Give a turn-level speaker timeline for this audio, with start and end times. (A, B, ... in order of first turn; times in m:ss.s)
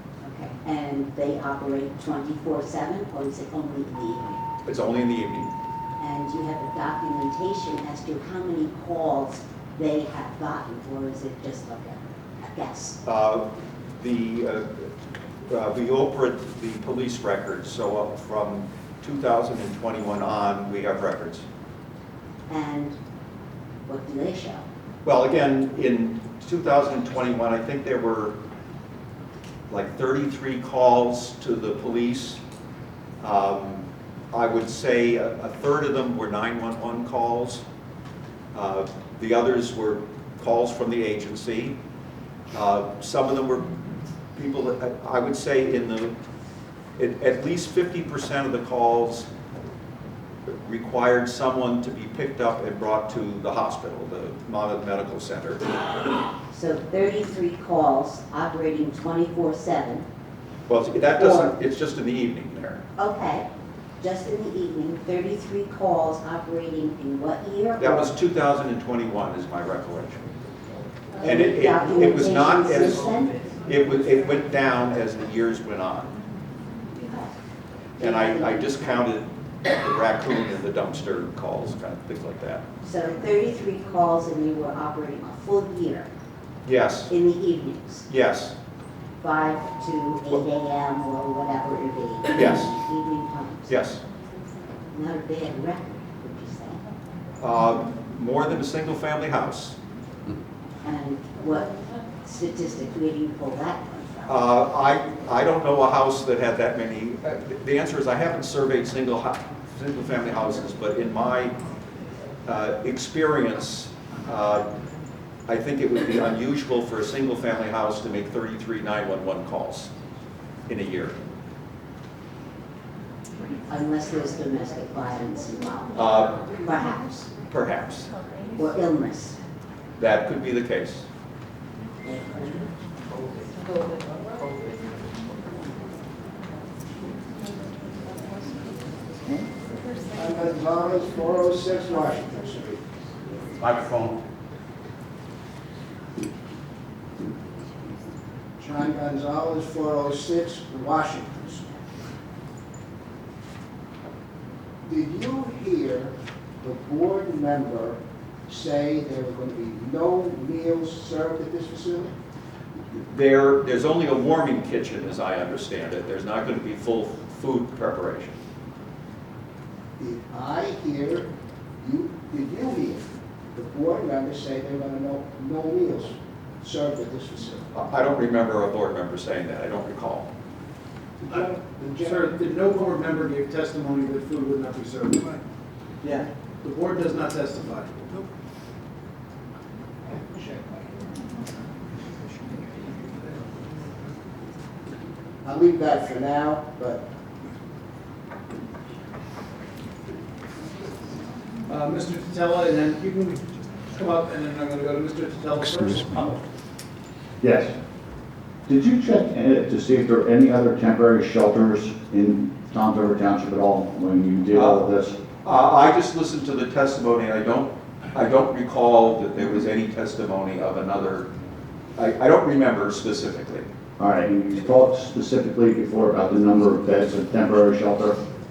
0:00.2-0:04.4 A
0:04.7-0:05.5 B
0:06.0-0:13.0 A
0:13.0-0:14.9 B
0:15.5-0:21.4 B
0:22.5-0:23.0 A
0:23.9-0:24.6 A
0:25.0-0:28.3 B
0:29.7-0:32.4 B
0:33.2-0:37.6 B
0:38.5-0:41.8 B
0:42.5-0:43.7 B
0:44.4-0:46.1 B
0:47.0-0:49.3 B
0:50.5-0:55.8 B
0:56.5-1:00.0 A
1:00.7-1:02.8 B
1:01.2-1:01.5 A
1:03.0-1:03.5 A
1:04.0-1:08.1 A
1:07.8-1:10.3 B
1:11.2-1:13.4 A
1:11.2-1:16.2 B
1:16.9-1:17.3 A
1:18.0-1:18.7 A
1:18.0-1:22.6 B
1:22.8-1:26.1 A
1:26.7-1:27.1 B
1:27.1-1:28.1 A
1:28.1-1:28.5 B
1:29.2-1:33.7 A
1:32.3-1:32.7 B
1:33.7-1:34.0 B
1:34.9-1:36.8 A
1:37.4-1:39.8 B
1:40.8-1:41.7 A
1:42.2-1:44.4 A
1:44.3-1:51.6 B
1:52.4-1:54.6 B
1:55.5-1:59.9 B
2:00.7-2:01.2 B
2:03.7-2:07.3 A
2:05.9-2:06.4 B
2:07.5-2:08.1 B
2:08.6-2:09.4 A
2:10.0-2:11.1 B
2:12.0-2:12.7 A
2:20.1-2:22.8 C
2:28.6-2:31.7 C
2:34.8-2:42.1 C
2:43.0-2:48.4 B
2:50.0-2:51.3 C
2:51.8-2:57.7 C
2:57.7-3:00.3 B
3:01.2-3:02.3 C
3:02.0-3:05.4 D
3:06.0-3:08.2 D
3:10.1-3:11.0 C
3:15.4-3:17.0 C
3:21.7-3:26.4 D
3:27.4-3:27.7 E
3:28.7-3:35.2 E
3:34.5-3:34.8 B
3:35.4-3:41.3 B
3:42.0-3:43.7 B
3:44.0-3:48.2 E